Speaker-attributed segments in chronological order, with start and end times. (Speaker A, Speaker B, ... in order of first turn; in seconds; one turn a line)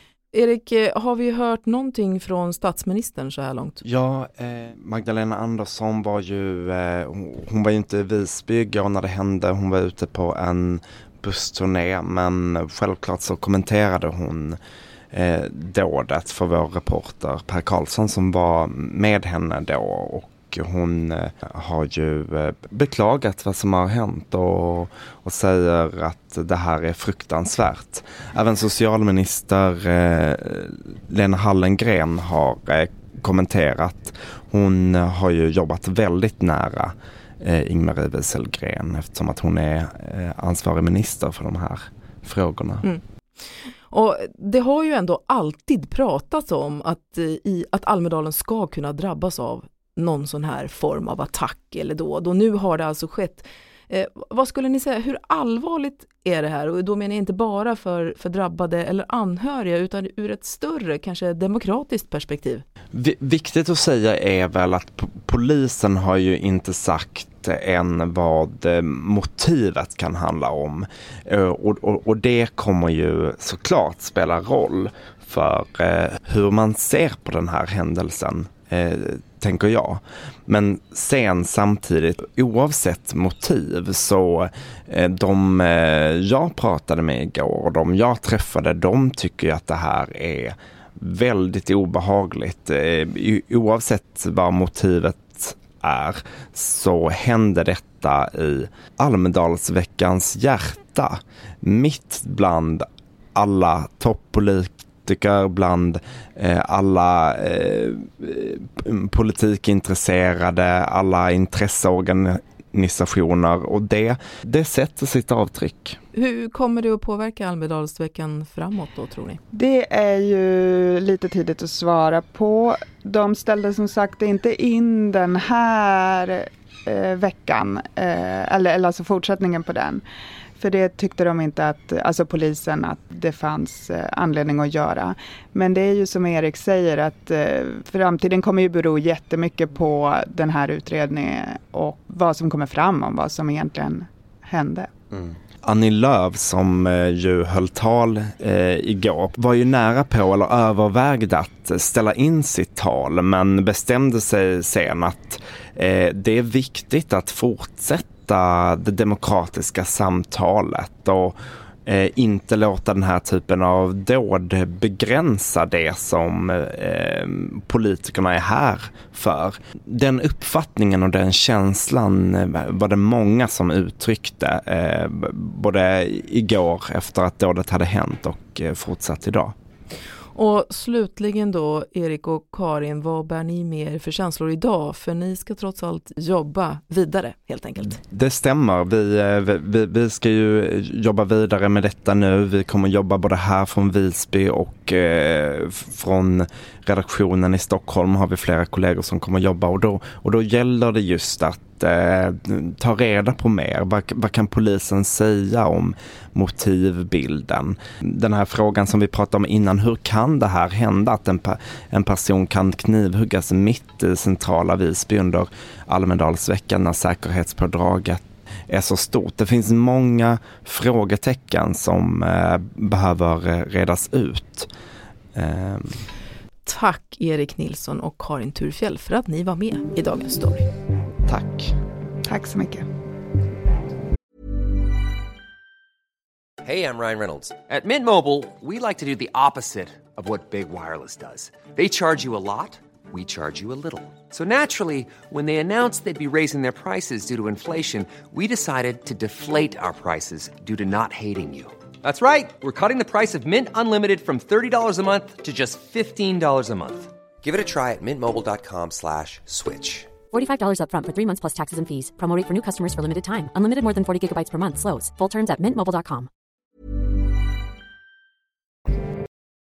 Speaker A: 0.3-3.8
Speaker B: 3.8-14.6
Speaker B: 15.1-42.9
Speaker A: 43.9-62.6
Speaker B: 62.9-116.0
Speaker A: 116.1-119.4
Speaker C: 119.5-130.0
Speaker C: 130.6-144.9
Speaker B: 145.1-179.5
Speaker A: 180.3-188.0
Speaker B: 188.1-224.7
Speaker B: 225.3-226.0
Speaker A: 226.7-230.7
Speaker B: 231.3-231.8
Speaker C: 232.2-232.8
Speaker D: 236.6-260.1
Speaker E: 260.3-266.3